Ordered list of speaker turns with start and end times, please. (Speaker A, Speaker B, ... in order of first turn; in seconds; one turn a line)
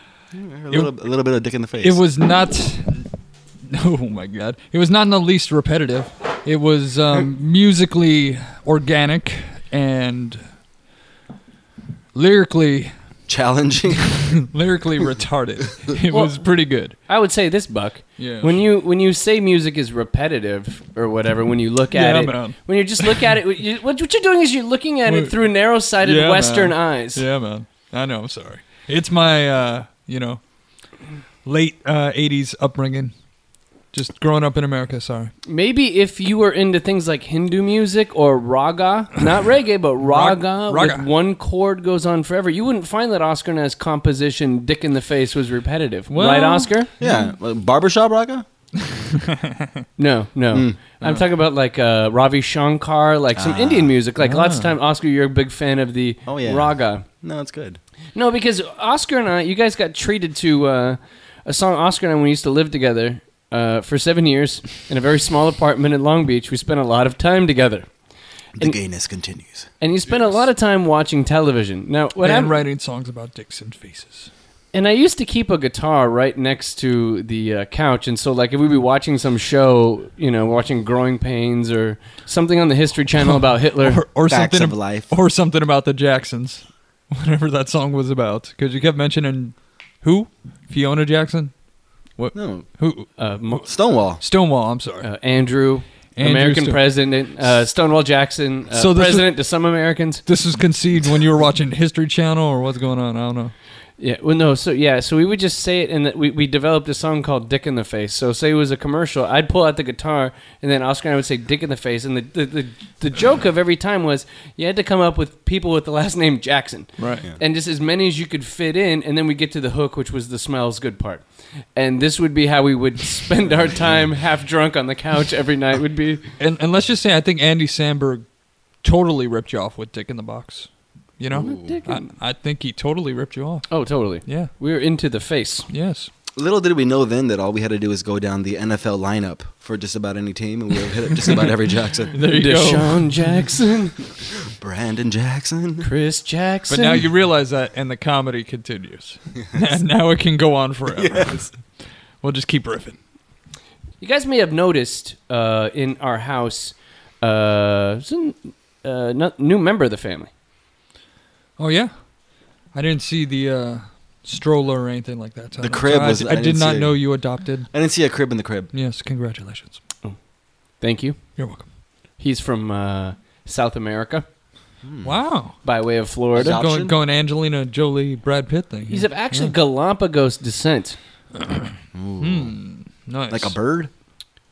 Speaker A: 0.3-2.0
Speaker B: 0.7-0.9
Speaker B: 1.8-3.1
Speaker B: 3.7-10.4
Speaker B: 12.1-12.9
Speaker A: 13.3-14.4
Speaker B: 14.1-16.9
Speaker C: 16.1-27.2
Speaker B: 18.2-18.6
Speaker B: 21.9-23.2
Speaker B: 25.1-30.4
Speaker B: 31.4-33.1
Speaker B: 33.9-35.3
Speaker C: 35.5-46.9
Speaker B: 40.0-41.1
Speaker B: 46.1-47.2
Speaker A: 47.0-48.5
Speaker B: 48.8-49.7
Speaker C: 50.0-57.1
Speaker A: 50.5-50.8
Speaker A: 53.4-53.9
Speaker B: 54.2-54.7
Speaker A: 56.3-57.8
Speaker C: 58.1-68.0
Speaker A: 68.6-69.7
Speaker C: 69.8-72.5
Speaker B: 72.2-74.3
Speaker C: 74.7-84.0
Speaker B: 83.2-93.1
Speaker A: 84.3-85.1
Speaker A: 92.3-92.7
Speaker C: 93.2-93.7
Speaker A: 93.7-94.2
Speaker B: 94.2-95.1
Speaker C: 95.0-100.2
Speaker B: 96.2-97.5
Speaker B: 98.7-99.5
Speaker B: 100.3-103.5
Speaker C: 104.0-126.3
Speaker B: 117.0-117.3
Speaker A: 123.5-124.1
Speaker B: 126.4-134.5
Speaker C: 131.3-132.1
Speaker A: 131.3-131.8
Speaker C: 133.7-135.7
Speaker B: 135.7-136.1
Speaker A: 136.4-142.2
Speaker B: 142.1-143.4
Speaker C: 142.2-144.0
Speaker A: 144.5-145.9
Speaker C: 145.8-147.0
Speaker B: 146.7-153.0
Speaker A: 150.9-151.5
Speaker C: 154.0-160.3
Speaker B: 161.6-167.7
Speaker A: 165.6-168.7
Speaker B: 168.7-169.8
Speaker C: 170.0-171.4
Speaker B: 171.4-171.7
Speaker C: 172.2-174.3
Speaker A: 174.8-175.2
Speaker B: 175.0-175.6
Speaker C: 175.6-176.6
Speaker A: 176.3-177.0
Speaker B: 176.5-179.6
Speaker C: 178.9-181.0
Speaker B: 181.4-183.6
Speaker A: 181.9-182.6
Speaker A: 183.3-183.9